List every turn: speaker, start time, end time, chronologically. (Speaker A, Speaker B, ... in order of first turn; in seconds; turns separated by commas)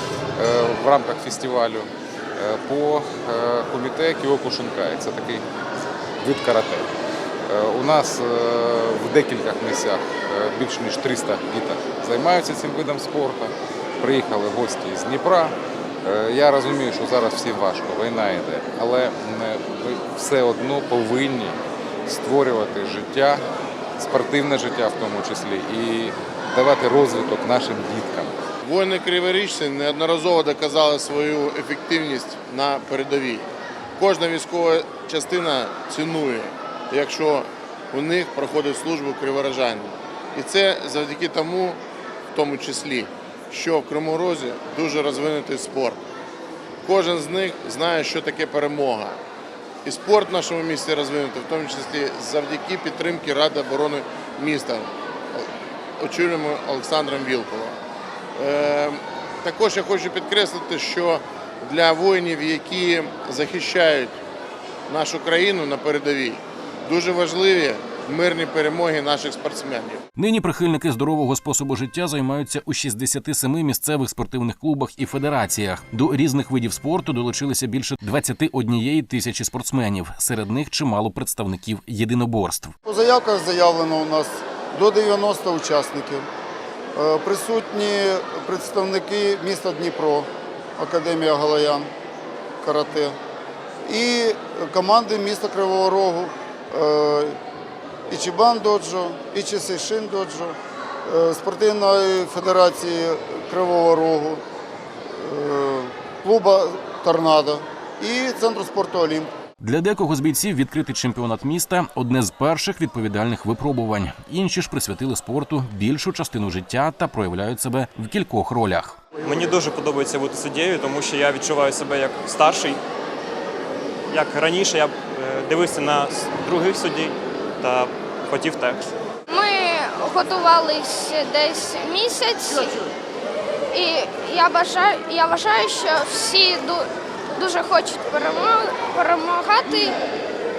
Speaker A: 0.4-5.5, Speaker A: 6.2-6.9, Speaker A: 7.5-23.4, Speaker A: 24.0-28.4, Speaker B: 28.6-41.8, Speaker B: 42.3-46.0, Speaker B: 46.8-49.2, Speaker B: 49.9-57.8, Speaker B: 58.4-64.2, Speaker B: 64.9-70.0, Speaker C: 70.2-82.8, Speaker D: 82.8-86.3, Speaker D: 87.0-91.9, Speaker D: 92.6-93.2, Speaker D: 93.9-97.4, Speaker D: 98.1-104.4, Speaker D: 105.1-109.3, Speaker C: 109.6-119.0, Speaker E: 119.2-122.8, Speaker E: 124.1-128.9, Speaker F: 129.3-132.8, Speaker F: 133.7-140.0